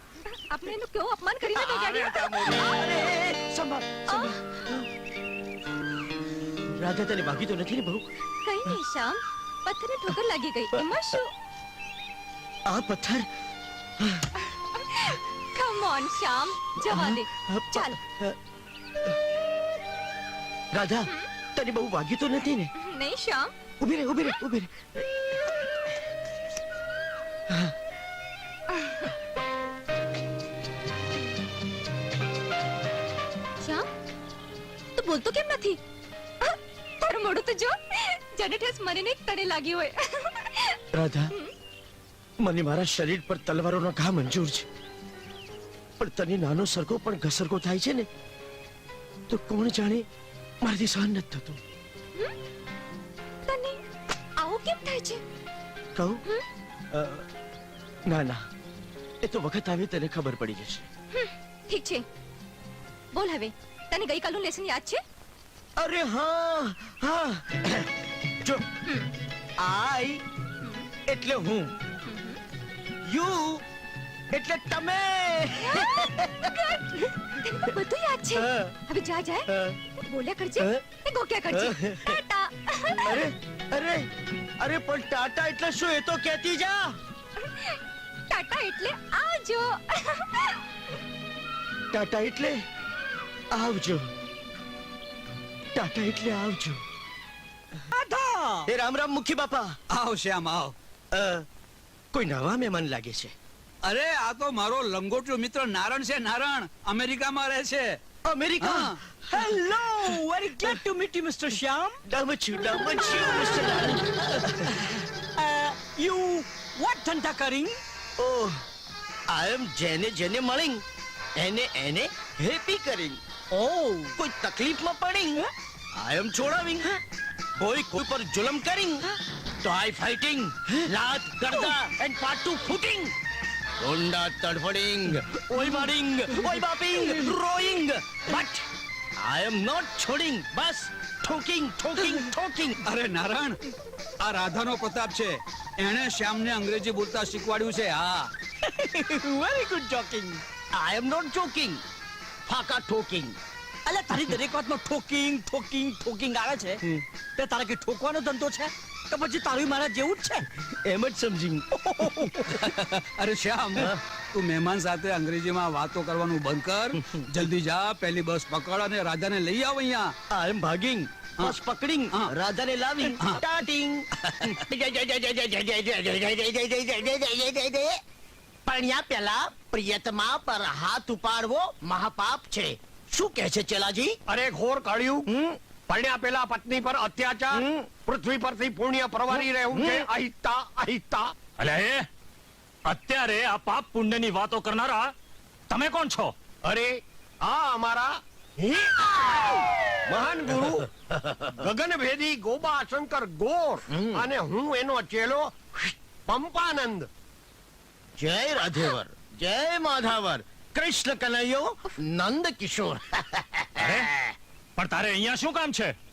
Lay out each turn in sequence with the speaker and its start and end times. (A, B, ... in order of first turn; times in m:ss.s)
0:00.3-0:03.0 A
0:01.6-0:04.9 B
0:04.1-0:04.4 A
0:06.8-0:08.0 B
0:08.4-0:11.3 A
0:12.7-0:13.3 B
0:14.0-0:14.3 B
0:14.8-0:18.0 A
0:16.9-0:18.4 B
0:20.7-0:22.7 B
0:22.8-0:23.5 A
0:23.8-0:25.8 B
0:28.7-0:29.1 A
0:35.0-0:35.8 A
0:36.4-0:41.5 A
0:40.9-0:41.3 B
0:42.4-0:44.7 B
0:46.0-0:48.1 B
0:49.3-0:50.0 B
0:50.6-0:51.6 B
0:53.5-0:53.8 A
0:54.4-0:55.2 A
0:56.0-0:56.2 B
0:56.9-0:57.2 B
0:58.1-0:58.4 B
0:59.2-1:00.9 B
1:01.1-1:02.0 A
1:03.1-1:05.0 A
1:05.8-1:08.6 B
1:08.9-1:09.1 A
1:09.6-1:10.2 B
1:10.6-1:10.9 A
1:11.1-1:11.8 B
1:12.0-1:12.4 A
1:13.0-1:13.6 B
1:14.3-1:16.4 B
1:15.6-1:23.2 A
1:18.4-1:18.8 B
1:19.5-1:19.8 B
1:20.6-1:20.8 B
1:21.5-1:22.2 B
1:23.0-1:27.0 B
1:27.4-1:27.8 A
1:28.3-1:30.6 A
1:31.9-1:32.6 B
1:33.5-1:34.1 B
1:35.7-1:36.8 B
1:37.9-1:38.7 C
1:38.6-1:39.8 B
1:39.9-1:40.7 D
1:41.1-1:41.5 B
1:42.1-1:43.3 B
1:43.8-1:48.0 D
1:48.2-1:50.8 B
1:48.6-1:48.9 D
1:49.5-1:52.0 C
1:52.0-1:54.8 B
1:54.9-1:57.8 C
1:58.2-1:58.6 B
1:59.3-2:00.8 B
2:01.4-2:03.2 B
2:03.5-2:04.0 C
2:04.0-2:07.0 B
2:07.6-2:09.1 B
2:09.6-2:13.1 B
2:13.8-2:18.6 B
2:17.0-2:17.4 D
2:19.2-2:22.8 B
2:22.0-2:22.3 D
2:22.8-2:23.6 D
2:24.2-2:28.3 D
2:28.7-2:29.3 B
2:29.2-2:30.4 C
2:30.7-2:31.8 B
2:32.5-2:33.4 B
2:33.9-2:36.8 C
2:37.4-2:40.5 C
2:40.7-2:42.7 B
2:42.5-2:50.1 D
2:46.9-2:47.2 B
2:50.3-2:57.9 B
2:53.1-2:53.4 D
2:58.6-3:04.2 B
3:04.3-3:05.3 E
3:05.3-3:05.6 B
3:05.9-3:11.3 E
3:07.5-3:07.9 B
3:09.8-3:10.0 B
3:11.6-3:12.1 F
3:12.8-3:15.1 F
3:15.7-3:16.4 F
3:16.6-3:20.9 E
3:21.1-3:21.5 B
3:21.6-3:27.1 E
3:23.9-3:24.3 B
3:28.2-3:34.4 B
3:33.8-3:34.1 F
3:34.8-3:36.0 F